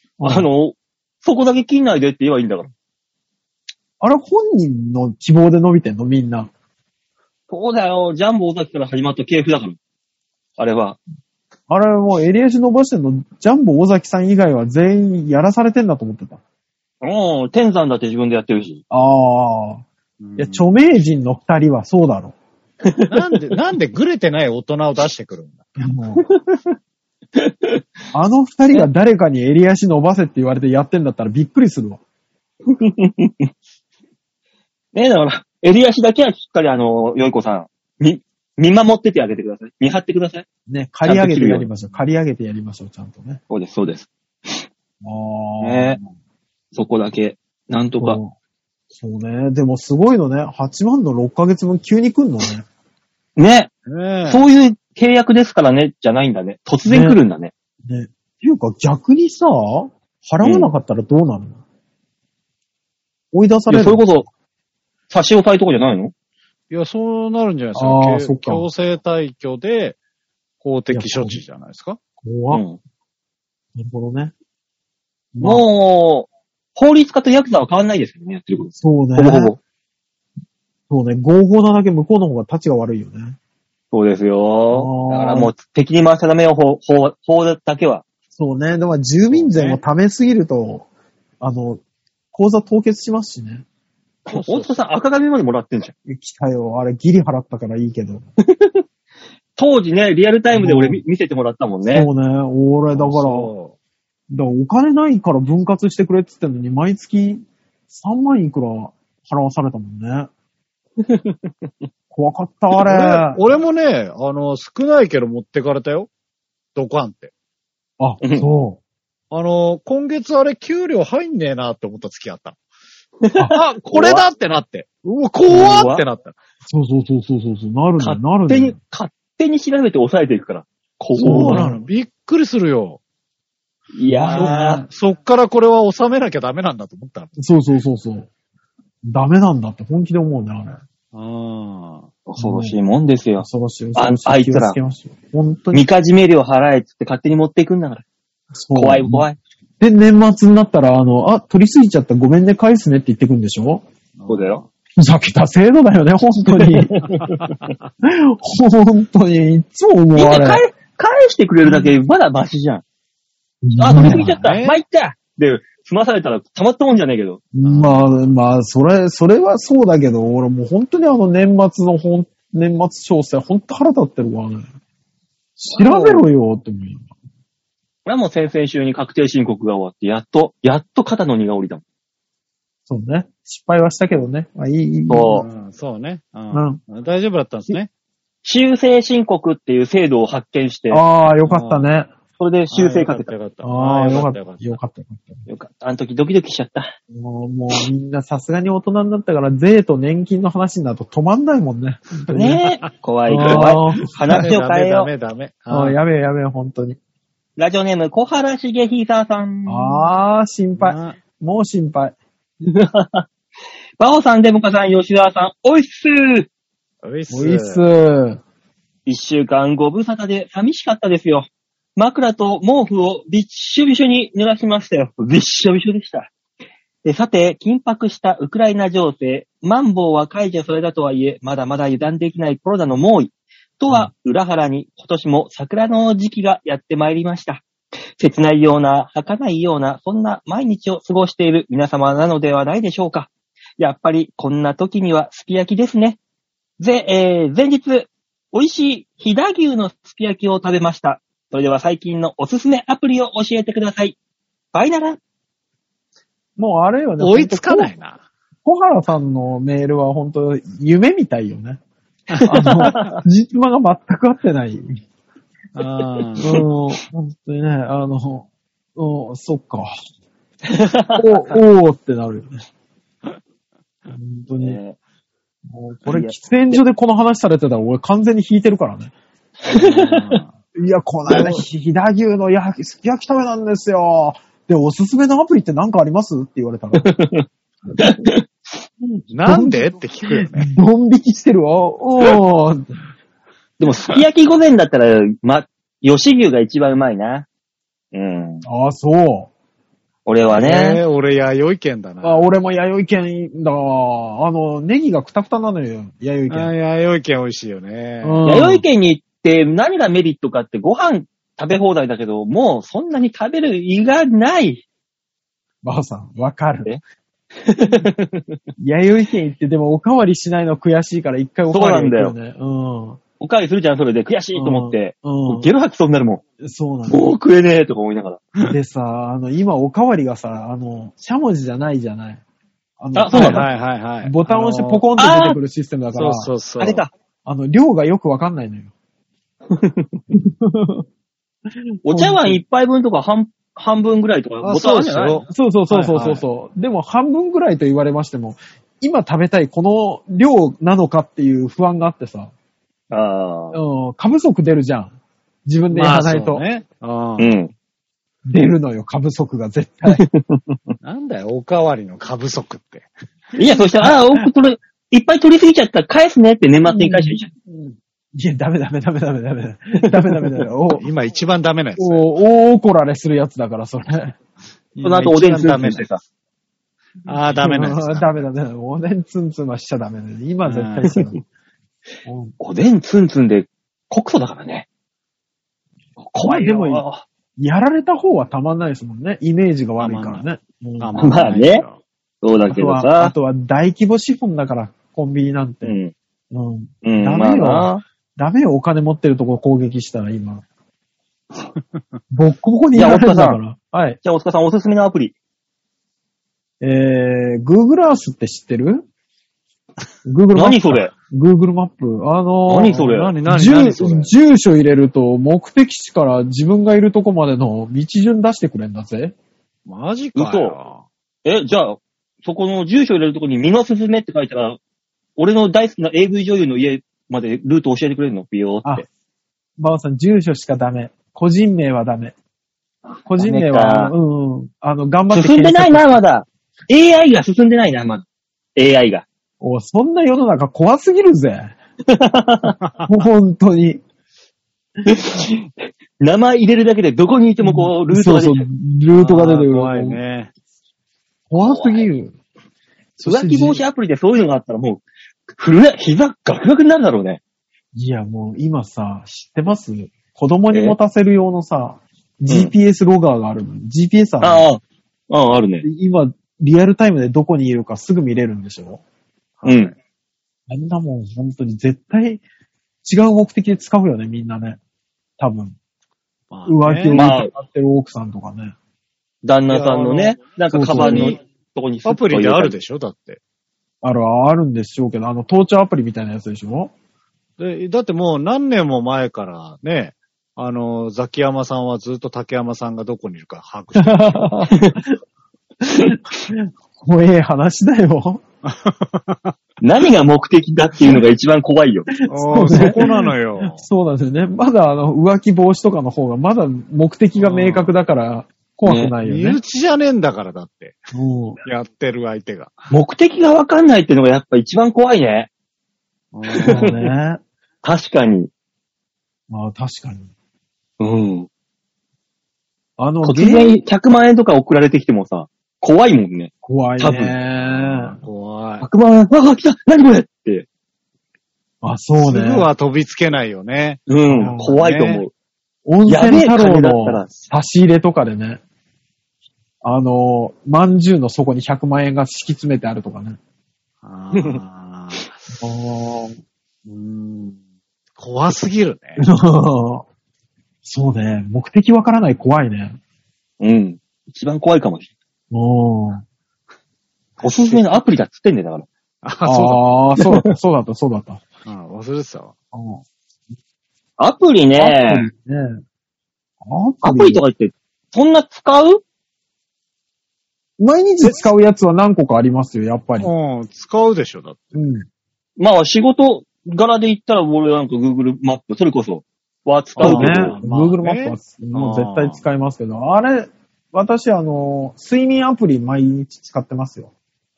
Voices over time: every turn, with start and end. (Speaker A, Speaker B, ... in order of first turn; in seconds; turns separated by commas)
Speaker A: 0.2-0.5, Speaker B: 0.2-2.7, Speaker A: 4.0-6.5, Speaker B: 7.5-9.8, Speaker B: 10.6-11.0, Speaker A: 11.7-16.4, Speaker B: 17.0-18.8, Speaker A: 18.9-19.8, Speaker C: 20.2-20.6, Speaker A: 20.4-22.3, Speaker C: 23.1-25.6, Speaker A: 25.8-26.2, Speaker B: 26.2-26.7, Speaker B: 27.4-27.8, Speaker A: 28.1-32.0, Speaker B: 32.7-33.5, Speaker B: 34.9-40.4, Speaker A: 40.7-43.4, Speaker B: 41.0-41.7, Speaker B: 43.5-44.6, Speaker A: 45.0-46.0, Speaker B: 45.6-46.0, Speaker B: 46.7-48.2, Speaker A: 48.0-48.3, Speaker A: 48.9-52.6, Speaker B: 53.4-53.7, Speaker C: 53.9-54.4, Speaker B: 54.2-57.5, Speaker A: 56.8-57.2, Speaker A: 57.8-61.6, Speaker A: 63.3-64.0, Speaker B: 63.7-64.3, Speaker B: 65.1-66.1, Speaker C: 66.7-70.0, Speaker A: 67.7-68.7, Speaker C: 70.6-72.0, Speaker A: 70.9-71.4, Speaker A: 72.2-72.6, Speaker B: 72.5-72.8, Speaker A: 73.7-74.3, Speaker A: 75.3-75.6, Speaker B: 75.4-79.6, Speaker A: 78.8-79.5, Speaker A: 80.9-83.4, Speaker B: 83.9-88.0, Speaker A: 84.7-85.5, Speaker A: 88.3-90.8, Speaker C: 89.3-89.8, Speaker A: 91.4-91.8, Speaker A: 92.3-93.6, Speaker B: 94.3-95.9, Speaker C: 94.3-94.9, Speaker A: 96.0-98.2, Speaker B: 98.4-98.8, Speaker B: 99.5-102.1, Speaker A: 100.5-101.0, Speaker A: 101.8-103.5, Speaker C: 102.9-103.7, Speaker A: 104.3-110.3, Speaker B: 111.0-111.7, Speaker A: 112.1-113.4, Speaker C: 112.7-116.1, Speaker C: 116.7-117.3, Speaker A: 118.0-118.8, Speaker B: 118.2-118.5, Speaker C: 119.3-122.5, Speaker B: 123.2-124.2, Speaker C: 123.5-126.3, Speaker B: 125.5-126.0, Speaker A: 126.7-128.8, Speaker B: 128.0-131.7, Speaker C: 131.2-133.0, Speaker A: 131.2-131.8, Speaker B: 133.9-134.8, Speaker A: 134.1-134.6, Speaker C: 134.3-137.4, Speaker A: 137.4-138.3, Speaker A: 139.0-140.8, Speaker C: 141.1-142.1, Speaker B: 142.3-144.8, Speaker A: 142.4-142.8, Speaker A: 143.4-145.8, Speaker B: 145.7-148.0, Speaker A: 148.5-149.2, Speaker B: 148.7-149.4, Speaker A: 149.8-153.8, Speaker C: 154.2-154.7, Speaker B: 154.3-154.6, Speaker A: 155.0-156.9, Speaker B: 156.5-157.5, Speaker A: 158.0-160.6, Speaker B: 160.1-162.8, Speaker A: 161.6-161.9, Speaker A: 163.6-164.4, Speaker B: 163.8-167.4, Speaker C: 164.1-164.8, Speaker A: 167.5-174.6, Speaker C: 167.6-168.3, Speaker A: 175.6-177.1, Speaker B: 175.7-176.2, Speaker B: 178.1-181.8, Speaker A: 182.9-185.4, Speaker B: 185.1-185.4, Speaker C: 185.3-187.9, Speaker A: 186.5-186.8, Speaker B: 188.4-191.0, Speaker A: 190.9-192.1, Speaker C: 191.4-191.9, Speaker B: 192.4-193.3, Speaker C: 192.7-194.7, Speaker A: 193.6-195.4, Speaker B: 195.5-196.9, Speaker A: 197.1-202.6, Speaker B: 202.3-205.1, Speaker A: 203.3-204.4, Speaker C: 203.4-203.7, Speaker C: 204.2-206.0, Speaker A: 205.7-207.0, Speaker B: 207.6-210.1, Speaker A: 209.7-212.2, Speaker C: 210.8-211.2, Speaker B: 212.6-213.2, Speaker B: 214.0-216.5, Speaker C: 217.0-217.8, Speaker A: 217.3-218.4, Speaker B: 219.1-226.3, Speaker B: 227.0-237.6, Speaker B: 238.2-246.2, Speaker B: 246.8-254.2, Speaker B: 254.7-255.2, Speaker A: 256.6-257.9, Speaker C: 257.2-258.2, Speaker A: 258.6-261.8, Speaker C: 262.3-263.1, Speaker B: 262.3-263.2, Speaker A: 262.4-265.0, Speaker C: 265.7-266.6, Speaker A: 266.4-269.9, Speaker B: 270.7-271.6, Speaker A: 271.1-272.5, Speaker A: 274.1-274.8, Speaker B: 274.6-275.0, Speaker A: 275.7-279.1, Speaker B: 276.0-276.8, Speaker B: 279.6-280.4, Speaker C: 279.7-280.5, Speaker A: 280.7-287.1, Speaker B: 281.3-281.6, Speaker B: 286.9-287.4, Speaker B: 288.0-288.4, Speaker A: 289.0-289.9, Speaker C: 289.3-290.7, Speaker A: 290.5-292.9, Speaker B: 293.8-297.5, Speaker B: 298.1-298.6, Speaker A: 298.6-299.5, Speaker B: 300.2-301.0, Speaker C: 300.5-302.4, Speaker A: 302.2-306.7, Speaker C: 306.5-308.4, Speaker A: 308.2-308.8, Speaker B: 308.4-314.8, Speaker A: 315.8-316.9, Speaker B: 317.6-318.6, Speaker A: 318.8-323.2, Speaker B: 321.7-322.4, Speaker B: 323.4-326.4, Speaker A: 324.5-325.7, Speaker A: 326.6-327.3, Speaker B: 327.1-328.4, Speaker A: 328.6-332.4, Speaker A: 333.0-336.5, Speaker B: 333.1-333.6, Speaker C: 333.3-335.0, Speaker B: 335.2-335.6, Speaker C: 336.1-337.0, Speaker B: 336.8-337.1, Speaker A: 337.4-338.9, Speaker B: 339.7-340.2, Speaker A: 340.3-341.0, Speaker A: 342.0-342.6, Speaker B: 342.0-345.4, Speaker C: 344.6-346.4, Speaker A: 345.5-352.5, Speaker B: 353.1-353.8, Speaker A: 353.7-355.1, Speaker A: 355.6-356.6, Speaker C: 355.9-357.6, Speaker B: 357.4-357.7, Speaker A: 358.5-360.2, Speaker B: 360.1-360.8, Speaker C: 361.0-363.1, Speaker B: 363.5-367.5, Speaker A: 363.8-364.4, Speaker A: 366.9-371.1, Speaker B: 369.9-370.5, Speaker C: 370.9-372.3, Speaker A: 372.0-374.4, Speaker C: 374.9-376.1, Speaker B: 375.0-376.2, Speaker C: 377.2-378.5, Speaker A: 377.6-381.4, Speaker C: 380.6-381.2, Speaker A: 382.2-382.5, Speaker B: 382.6-384.9, Speaker B: 386.2-387.2, Speaker A: 386.4-387.0, Speaker A: 387.6-391.2, Speaker C: 390.0-390.4, Speaker C: 391.0-392.0, Speaker B: 391.2-391.8, Speaker B: 392.4-393.3, Speaker A: 392.7-395.9, Speaker B: 395.8-396.1, Speaker A: 396.5-400.6, Speaker B: 397.0-398.0, Speaker A: 402.3-404.2, Speaker B: 402.9-403.6, Speaker B: 404.2-405.3, Speaker A: 406.8-409.0, Speaker A: 410.2-419.3, Speaker B: 410.5-411.1, Speaker B: 412.7-413.3, Speaker C: 412.8-414.3, Speaker C: 419.9-421.0, Speaker B: 420.4-420.8, Speaker B: 421.4-424.8, Speaker B: 425.4-429.0, Speaker A: 429.8-432.3, Speaker A: 433.2-436.2, Speaker B: 433.4-434.1, Speaker B: 435.3-438.2, Speaker B: 438.8-439.2, Speaker A: 439.6-441.7, Speaker B: 442.1-442.7, Speaker C: 442.8-443.1, Speaker A: 443.1-444.0, Speaker B: 445.0-448.6, Speaker A: 447.6-450.2, Speaker C: 449.1-450.5, Speaker A: 451.5-452.3, Speaker B: 451.6-452.1, Speaker A: 453.2-453.8, Speaker B: 453.2-457.4, Speaker A: 457.9-464.6, Speaker B: 460.7-461.0, Speaker B: 462.5-462.7, Speaker B: 464.4-465.8, Speaker A: 465.8-469.0, Speaker C: 469.6-469.9, Speaker B: 469.6-469.9, Speaker A: 470.7-472.4, Speaker A: 473.0-474.8, Speaker A: 475.4-475.8, Speaker C: 476.5-477.2, Speaker A: 476.6-478.7, Speaker B: 477.1-477.5, Speaker B: 479.4-482.7, Speaker C: 479.7-481.4, Speaker A: 480.7-481.4, Speaker C: 482.0-483.4, Speaker A: 484.0-486.9, Speaker C: 487.6-494.7, Speaker A: 493.9-495.1, Speaker B: 494.7-495.0, Speaker A: 495.8-498.4, Speaker B: 495.9-496.2, Speaker C: 498.6-499.5, Speaker B: 499.8-502.1, Speaker A: 502.2-509.6, Speaker C: 502.3-503.8, Speaker C: 507.4-507.9, Speaker B: 508.9-509.1, Speaker C: 509.2-511.0, Speaker A: 511.1-511.6, Speaker C: 511.6-512.9, Speaker B: 512.9-515.5, Speaker C: 516.3-517.0, Speaker B: 516.5-516.9, Speaker A: 516.6-517.4, Speaker B: 517.8-518.5, Speaker A: 519.5-520.3, Speaker B: 521.0-521.5, Speaker A: 523.0-523.8, Speaker B: 523.2-527.3, Speaker A: 526.6-528.2, Speaker C: 527.6-528.9, Speaker B: 528.8-530.6, Speaker A: 531.8-532.7, Speaker C: 532.2-535.2, Speaker B: 534.1-535.3, Speaker A: 534.4-534.7, Speaker A: 535.8-538.6, Speaker B: 536.0-537.3, Speaker A: 539.8-543.4, Speaker C: 544.0-545.4, Speaker B: 544.3-544.6, Speaker A: 545.6-546.4, Speaker C: 546.9-547.6, Speaker C: 548.2-549.2, Speaker A: 549.2-550.0, Speaker A: 550.8-553.0, Speaker B: 553.6-555.1, Speaker A: 555.5-556.2, Speaker C: 557.4-558.0, Speaker B: 557.4-558.9, Speaker C: 559.2-559.8, Speaker A: 559.4-561.4, Speaker B: 560.2-560.5, Speaker C: 561.6-562.5, Speaker A: 562.7-563.0, Speaker B: 564.2-565.3, Speaker A: 564.8-565.8, Speaker A: 566.6-567.4, Speaker B: 567.0-569.0, Speaker A: 570.8-573.3, Speaker C: 571.2-571.5, Speaker C: 573.2-574.7, Speaker A: 574.7-575.0, Speaker B: 575.6-580.6, Speaker C: 580.0-582.4, Speaker A: 580.0-587.1